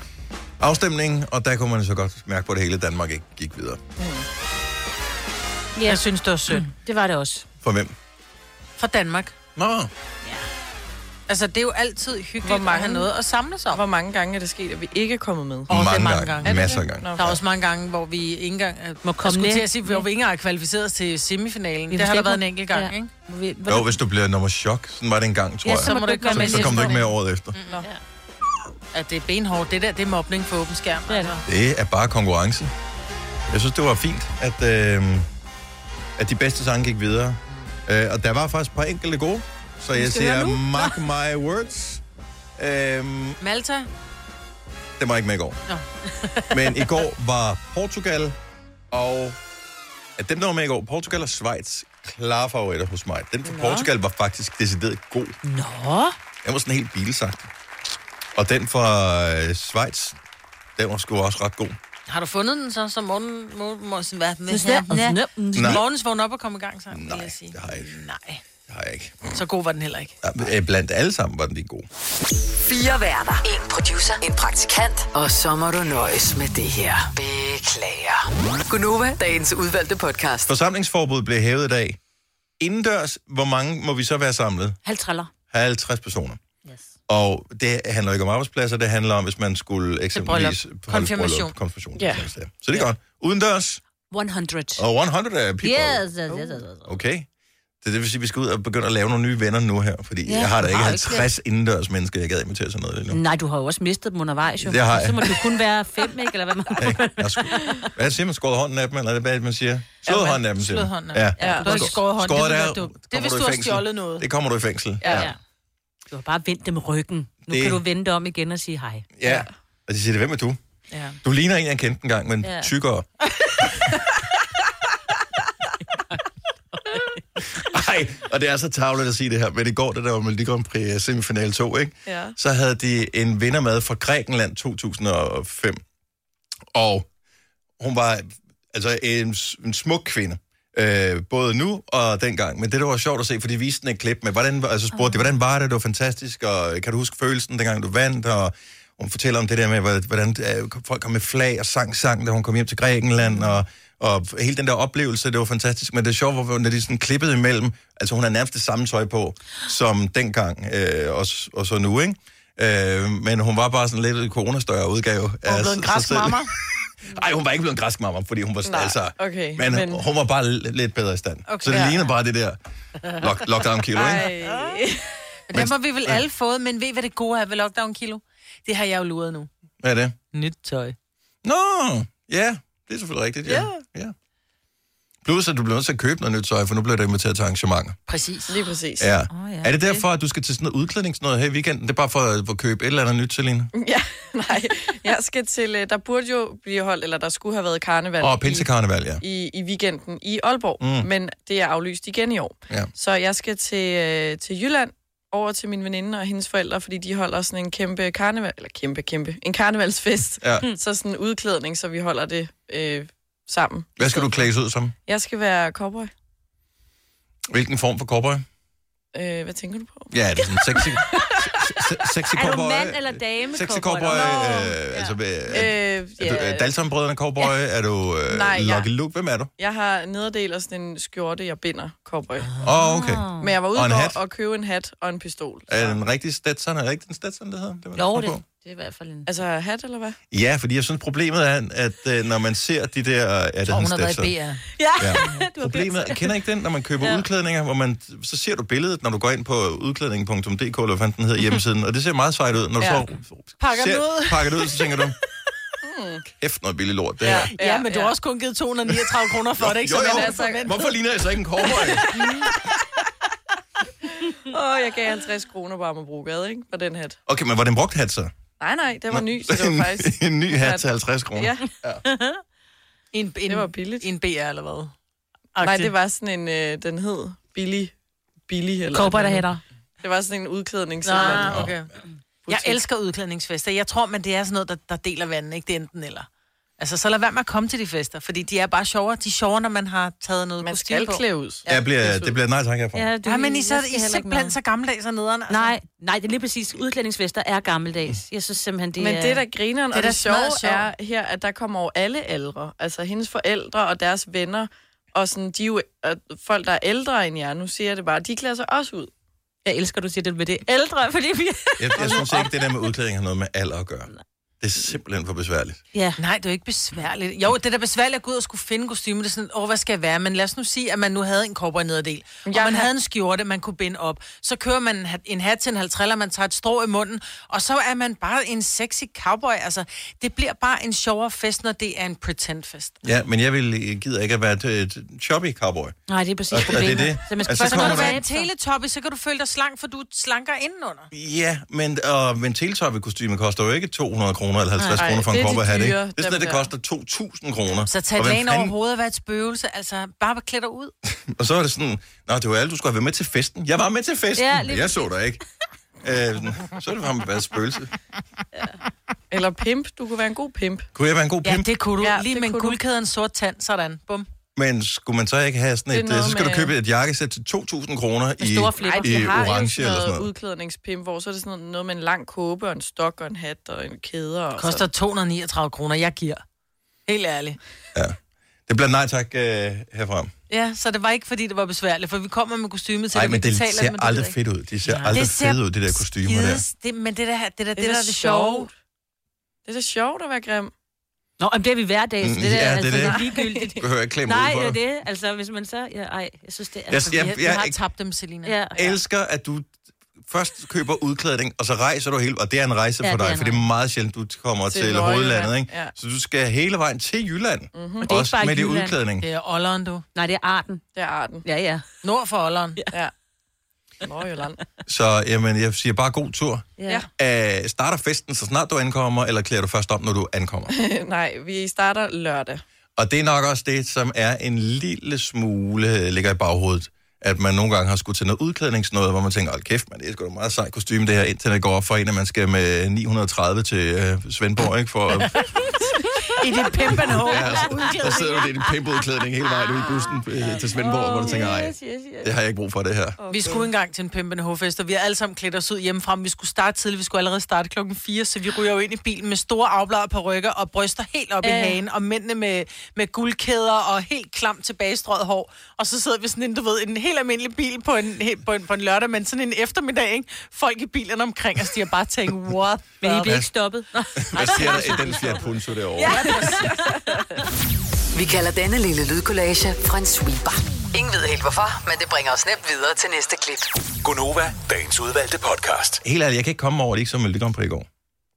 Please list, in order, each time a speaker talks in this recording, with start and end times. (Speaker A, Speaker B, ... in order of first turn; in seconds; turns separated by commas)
Speaker A: 0.6-3.8, Speaker B: 4.0-4.2, Speaker C: 5.8-7.5, Speaker D: 5.8-6.7, Speaker A: 7.6-8.0, Speaker D: 8.8-9.3, Speaker A: 9.6-9.9, Speaker D: 11.3-13.8, Speaker B: 12.4-13.1, Speaker B: 13.7-15.8, Speaker A: 15.7-17.4, Speaker D: 15.7-23.1, Speaker C: 16.5-16.8, Speaker B: 16.9-17.2, Speaker C: 19.0-20.1, Speaker C: 21.9-24.0, Speaker A: 23.7-27.6, Speaker C: 25.6-27.1, Speaker D: 25.8-27.0, Speaker D: 27.5-27.8, Speaker D: 28.9-31.4, Speaker C: 31.1-31.4, Speaker A: 31.5-32.7, Speaker A: 33.5-35.3, Speaker A: 36.2-42.0, Speaker C: 39.9-41.0, Speaker A: 42.6-43.4, Speaker D: 43.4-43.9, Speaker A: 45.0-45.6, Speaker D: 45.7-47.0, Speaker A: 46.5-48.4, Speaker A: 48.9-49.4, Speaker A: 50.2-55.4, Speaker B: 53.5-53.9, Speaker C: 55.5-56.2, Speaker A: 56.4-57.5, Speaker A: 58.4-60.2, Speaker A: 60.8-61.8, Speaker D: 62.1-68.4, Speaker C: 64.5-65.8, Speaker A: 65.5-65.8, Speaker A: 66.9-68.0, Speaker A: 68.7-69.3, Speaker D: 69.3-70.3, Speaker A: 70.2-71.9, Speaker E: 72.6-80.5, Speaker A: 80.5-82.0, Speaker A: 82.6-84.8, Speaker C: 84.8-85.3, Speaker A: 85.5-86.4, Speaker C: 86.7-86.9, Speaker A: 87.1-93.8, Speaker D: 90.1-91.5, Speaker B: 92.0-92.2, Speaker C: 94.1-94.8, Speaker A: 94.8-96.3, Speaker C: 95.6-97.0, Speaker A: 96.8-97.3, Speaker A: 97.8-103.2, Speaker C: 100.3-101.3, Speaker C: 103.1-107.9, Speaker A: 104.6-105.6, Speaker A: 106.8-115.3, Speaker D: 110.0-114.3, Speaker B: 111.4-111.8, Speaker C: 111.4-111.9, Speaker B: 115.0-115.3, Speaker C: 115.0-115.4, Speaker C: 116.1-119.1, Speaker A: 117.5-117.8, Speaker A: 119.2-120.6, Speaker D: 120.9-121.2, Speaker A: 121.2-123.1, Speaker C: 122.4-122.7, Speaker A: 127.6-135.8, Speaker B: 132.1-132.4, Speaker A: 136.7-137.1, Speaker A: 137.8-174.3, Speaker D: 165.5-166.5, Speaker B: 168.6-170.0, Speaker D: 171.5-172.1, Speaker B: 173.9-175.1, Speaker D: 175.5-179.5, Speaker A: 175.5-176.2, Speaker A: 179.8-180.2, Speaker D: 180.3-181.0, Speaker A: 181.4-184.1, Speaker A: 185.2-188.0, Speaker D: 188.1-188.7, Speaker B: 188.5-189.1, Speaker A: 189.0-193.7, Speaker C: 189.3-190.0, Speaker B: 193.8-198.7, Speaker A: 198.2-199.2, Speaker B: 199.2-214.4, Speaker A: 200.8-201.1, Speaker A: 210.4-210.7, Speaker A: 214.0-214.9, Speaker B: 215.1-216.1, Speaker A: 217.5-218.4, Speaker B: 219.1-221.1, Speaker A: 220.1-229.5, Speaker C: 222.3-225.7, Speaker B: 225.5-226.7, Speaker B: 228.3-228.9, Speaker B: 229.6-232.5, Speaker C: 232.4-233.5, Speaker A: 232.6-234.2, Speaker B: 233.4-236.0, Speaker A: 235.7-238.4, Speaker C: 237.9-239.3, Speaker B: 239.3-240.2, Speaker A: 240.3-244.3, Speaker D: 243.7-244.7, Speaker C: 244.8-246.3, Speaker A: 245.0-255.2, Speaker B: 252.8-253.0, Speaker D: 253.6-254.9, Speaker B: 255.8-256.3, Speaker A: 256.4-257.5, Speaker B: 257.2-258.1, Speaker D: 257.6-260.9, Speaker A: 258.9-262.1, Speaker B: 260.0-260.8, Speaker B: 262.1-262.5, Speaker B: 264.2-267.2, Speaker A: 267.3-268.3, Speaker B: 268.6-271.7, Speaker A: 269.1-272.0, Speaker C: 272.1-272.4, Speaker D: 273.1-274.9, Speaker B: 273.5-274.1, Speaker D: 275.6-275.9, Speaker B: 275.6-277.9, Speaker B: 278.5-279.5, Speaker C: 278.9-279.6, Speaker B: 280.0-281.7, Speaker D: 281.0-281.9, Speaker A: 281.4-281.8, Speaker B: 282.5-282.8, Speaker D: 282.5-291.2, Speaker B: 290.6-292.3, Speaker A: 291.7-293.1, Speaker C: 292.9-294.6, Speaker D: 293.2-295.8, Speaker C: 295.5-299.4, Speaker B: 299.0-309.1, Speaker D: 299.9-300.9, Speaker C: 309.6-312.4, Speaker A: 311.8-315.8, Speaker C: 315.9-316.2, Speaker D: 316.2-333.0, Speaker B: 322.5-322.9, Speaker A: 333.0-336.0, Speaker C: 336.1-338.5, Speaker A: 336.5-338.2, Speaker D: 337.5-341.1, Speaker A: 341.1-348.8, Speaker C: 344.8-345.1, Speaker B: 345.0-346.7, Speaker D: 347.9-350.9, Speaker A: 351.1-355.4, Speaker C: 354.4-355.0, Speaker A: 356.0-357.9, Speaker B: 359.3-360.9, Speaker A: 360.9-361.7, Speaker D: 361.4-364.3, Speaker B: 362.0-362.8, Speaker A: 364.6-370.3, Speaker B: 365.9-366.7, Speaker C: 368.5-369.3, Speaker B: 368.8-374.9, Speaker D: 374.6-376.4, Speaker D: 377.1-377.6, Speaker A: 377.9-380.3, Speaker D: 380.5-388.7, Speaker A: 383.1-386.6, Speaker B: 387.8-388.7, Speaker B: 389.7-390.7, Speaker C: 391.4-397.3, Speaker A: 392.2-393.2, Speaker B: 392.9-393.8, Speaker A: 393.8-394.8, Speaker A: 396.9-397.8, Speaker D: 397.1-399.0, Speaker C: 398.4-398.8, Speaker A: 398.8-399.7, Speaker A: 400.2-409.3, Speaker C: 403.0-403.6, Speaker B: 404.7-405.9, Speaker B: 407.7-408.1, Speaker C: 408.0-409.0, Speaker D: 409.2-410.1, Speaker C: 410.1-410.8, Speaker B: 410.9-411.5, Speaker C: 411.4-411.9, Speaker D: 412.0-412.8, Speaker B: 414.0-414.6, Speaker A: 414.9-420.7, Speaker C: 416.8-417.1, Speaker B: 420.7-422.6, Speaker A: 423.0-435.5, Speaker C: 436.3-438.7, Speaker D: 436.4-438.1, Speaker A: 437.2-443.2, Speaker C: 440.5-442.3, Speaker B: 443.2-443.7, Speaker D: 443.3-463.4, Speaker C: 451.4-451.8, Speaker C: 463.0-465.4, Speaker A: 463.2-463.5, Speaker A: 464.2-466.4, Speaker D: 464.4-465.2, Speaker C: 466.0-467.3, Speaker D: 466.0-466.8, Speaker B: 466.6-466.9, Speaker E: 468.1-473.7, Speaker F: 474.0-476.0, Speaker A: 476.0-477.9